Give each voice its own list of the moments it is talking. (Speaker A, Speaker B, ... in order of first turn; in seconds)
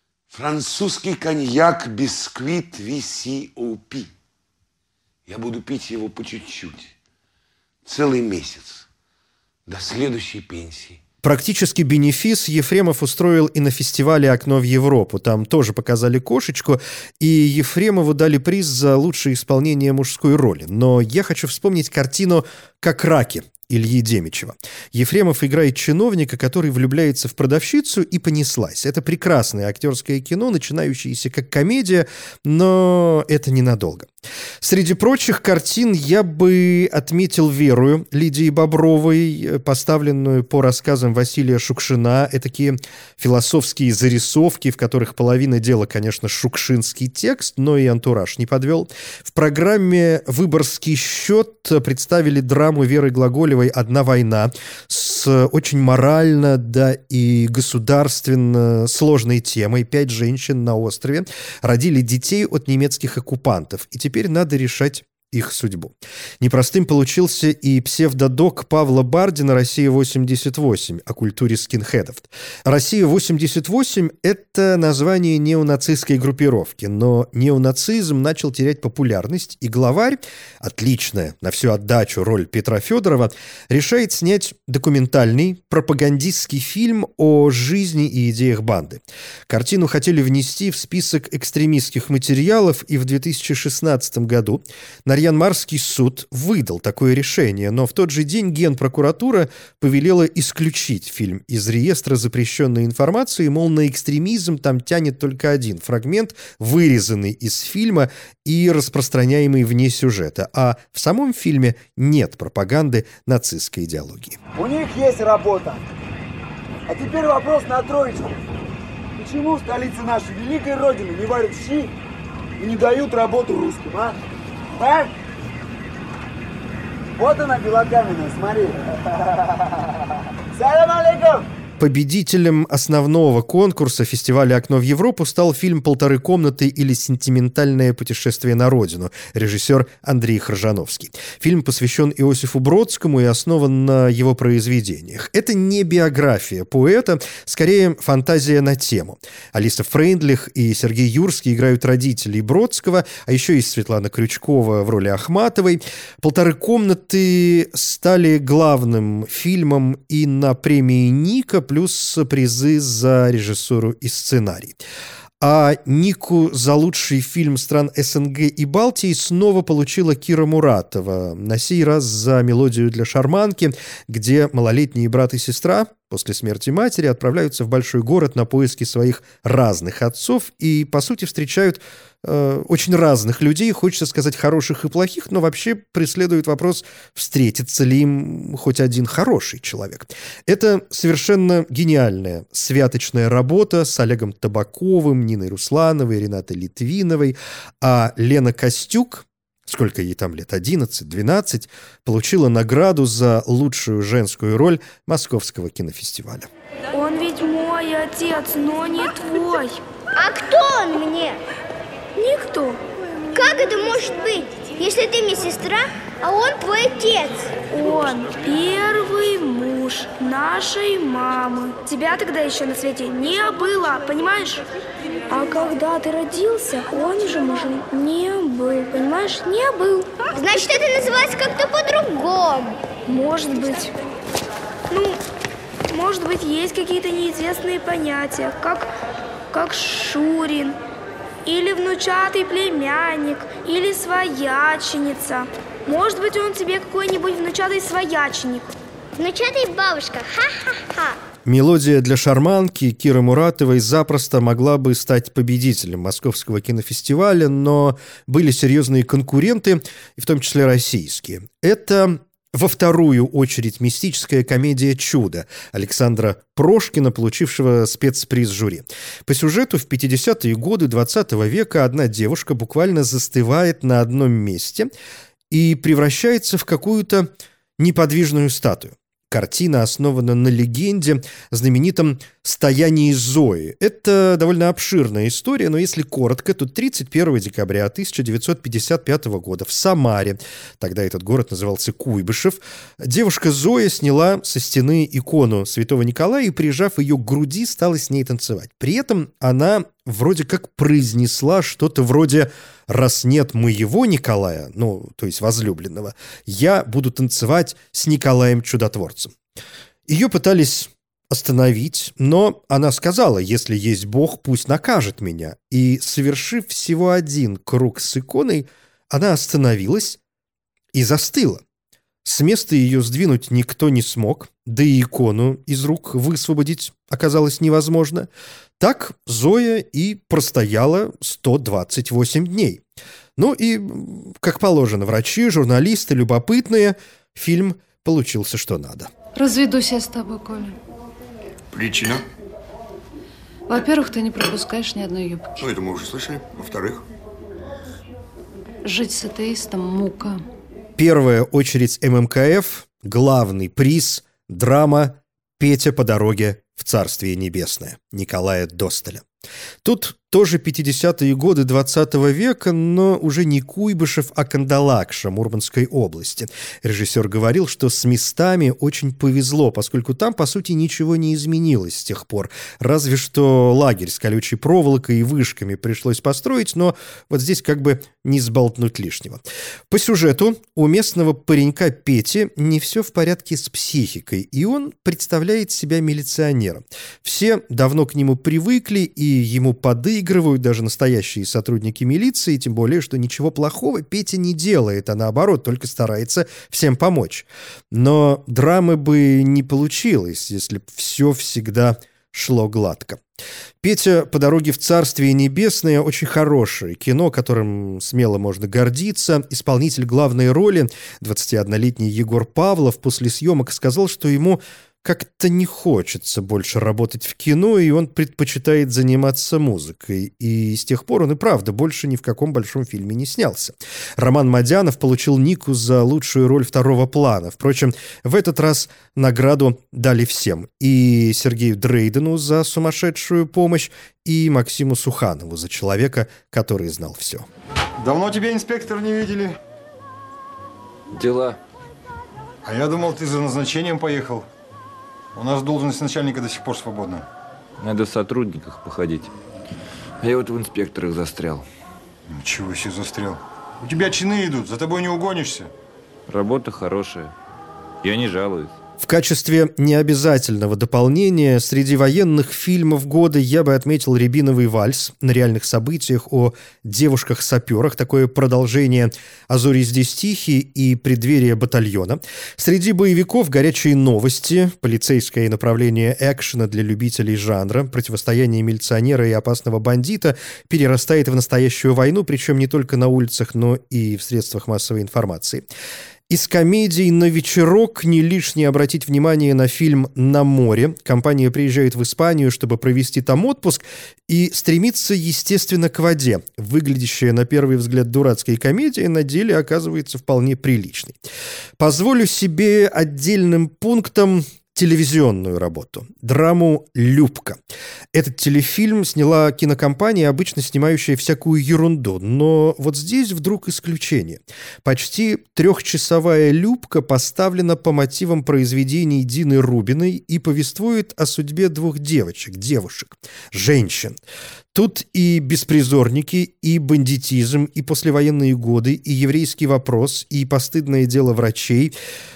Speaker A: 0.3-4.1, 5.2-6.9, 7.8-8.9, 9.7-11.0
Speaker B: 11.2-34.1, 34.6-114.4, 131.8-164.8, 165.4-206.5, 251.4-274.9, 275.5-309.3, 310.1-320.2, 320.9-321.6, 322.2-328.3, 328.8-332.8, 333.4-339.1, 351.0-359.2, 359.8-403.2, 403.8-437.5, 459.0-485.6, 486.3-501.1, 501.8-507.6, 508.1-524.2, 524.7-531.9
Speaker C: 114.5-115.8, 116.9-118.3, 119.2-121.9, 122.6-124.2, 124.8-125.1, 127.2-128.8, 130.5-131.4
Speaker D: 206.9-209.8, 212.2-212.8, 217.7-224.6, 225.3-230.3, 233.1-233.9, 234.9-235.2, 235.9-238.9, 239.5-240.8, 241.4-248.7
Speaker E: 210.2-211.4, 213.3-217.5, 230.3-232.8, 249.2-251.2
Speaker F: 339.3-340.8, 343.7-345.6, 348.8-350.4
Speaker G: 341.7-342.2, 345.6-347.0
Speaker H: 438.0-439.6, 442.6-444.5, 445.3-447.2, 452.3-455.7
Speaker I: 441.1-441.6, 447.8-449.3, 450.2-451.7, 456.3-457.3, 458.0-458.7